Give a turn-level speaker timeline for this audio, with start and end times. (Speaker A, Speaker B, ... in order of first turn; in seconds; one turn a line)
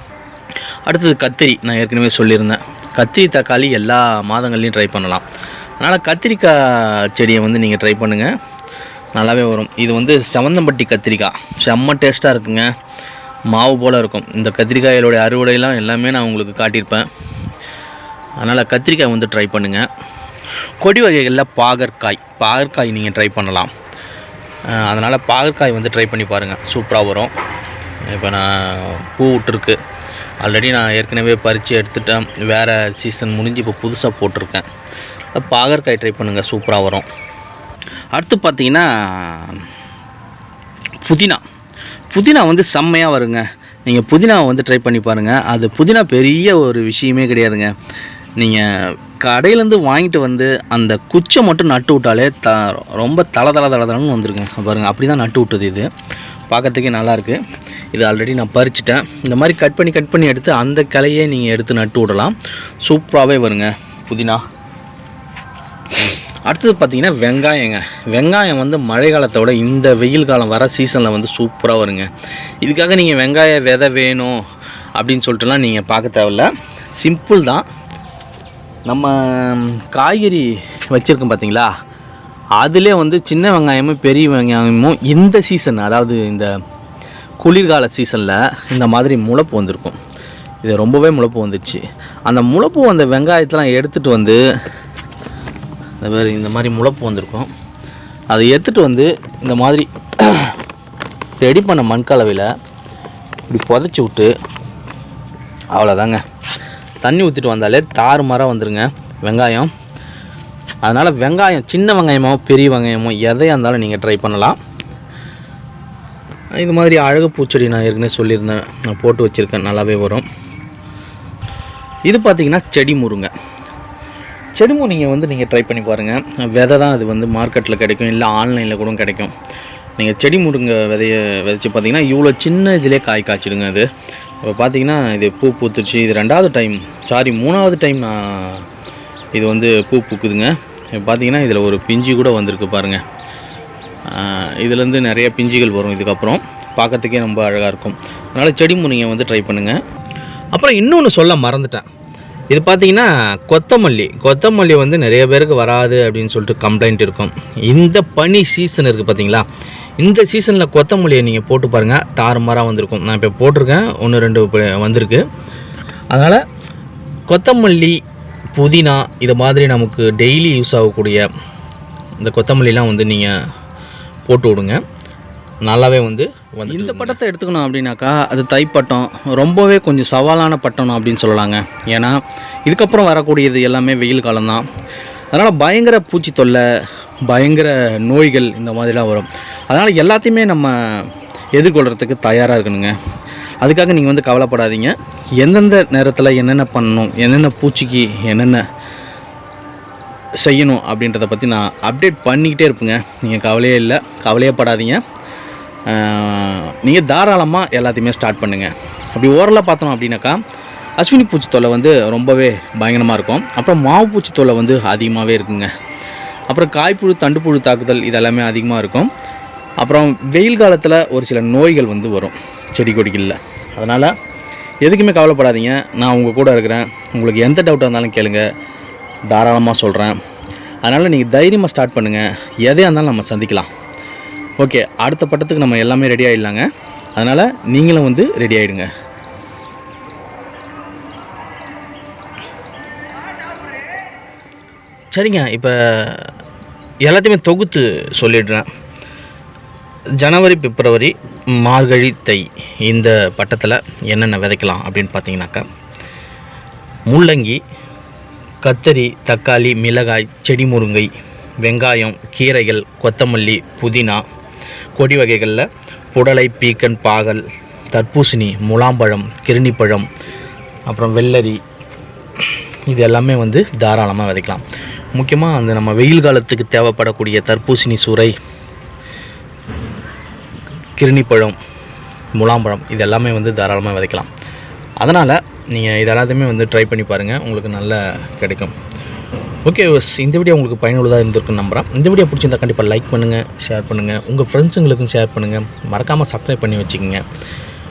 Speaker A: 0.9-5.2
Speaker A: 5.8-8.3
Speaker A: 9.2-12.7
Speaker A: 13.5-17.1
Speaker A: 18.4-19.9
Speaker A: 20.8-23.7
Speaker A: 24.7-27.3
Speaker A: 28.1-29.8
Speaker A: 30.4-34.6
Speaker A: 35.3-37.0
Speaker A: 38.1-39.6
Speaker A: 41.0-41.4
Speaker A: 42.1-47.7
Speaker A: 48.4-55.9
Speaker A: 56.5-57.4
Speaker A: 57.9-64.4
Speaker A: 66.5-72.1
Speaker A: 72.6-74.4
Speaker A: 75.0-77.6
Speaker A: 78.9-81.7
Speaker A: 82.6-86.5
Speaker A: 87.4-90.0
Speaker A: 90.6-94.4
Speaker A: 96.0-97.5
Speaker A: 98.3-100.5
Speaker A: 101.4-102.5
Speaker A: 103.5-104.3
Speaker A: 105.7-106.2
Speaker A: 107.0-109.7
Speaker A: 110.8-114.6
Speaker A: 116.6-120.2
Speaker A: 122.1-123.3
Speaker A: 124.5-129.3
Speaker A: 130.0-133.9
Speaker A: 134.4-138.7
Speaker A: 139.3-143.0
Speaker A: 144.1-149.8
Speaker A: 150.5-151.8
Speaker A: 152.5-159.4
Speaker A: 160.0-165.2
Speaker A: 166.1-166.4
Speaker A: 167.3-168.0
Speaker A: 168.5-171.2
Speaker A: 172.2-173.3
Speaker A: 174.3-174.8
Speaker A: 175.7-184.6
Speaker A: 185.3-186.6
Speaker A: 187.3-192.9
Speaker A: 193.6-198.6
Speaker A: 200.4-205.0
Speaker A: 205.9-210.4
Speaker A: 211.0-215.7
Speaker A: 216.5-219.1
Speaker A: 219.8-224.1
Speaker A: 224.8-228.4
Speaker A: 229.3-230.2
Speaker A: 230.8-233.7
Speaker A: 234.6-238.9
Speaker A: 245.1-246.3
Speaker A: 247.0-248.7
Speaker A: 250.2-255.6
Speaker A: 257.1-257.6
Speaker A: 258.6-261.1
Speaker A: 261.6-264.2
Speaker A: 264.9-270.1
Speaker A: 270.9-271.6
Speaker A: 272.9-278.3
Speaker A: 281.0-281.6
Speaker A: 282.3-284.3
Speaker A: 285.0-288.7
Speaker A: 289.6-297.2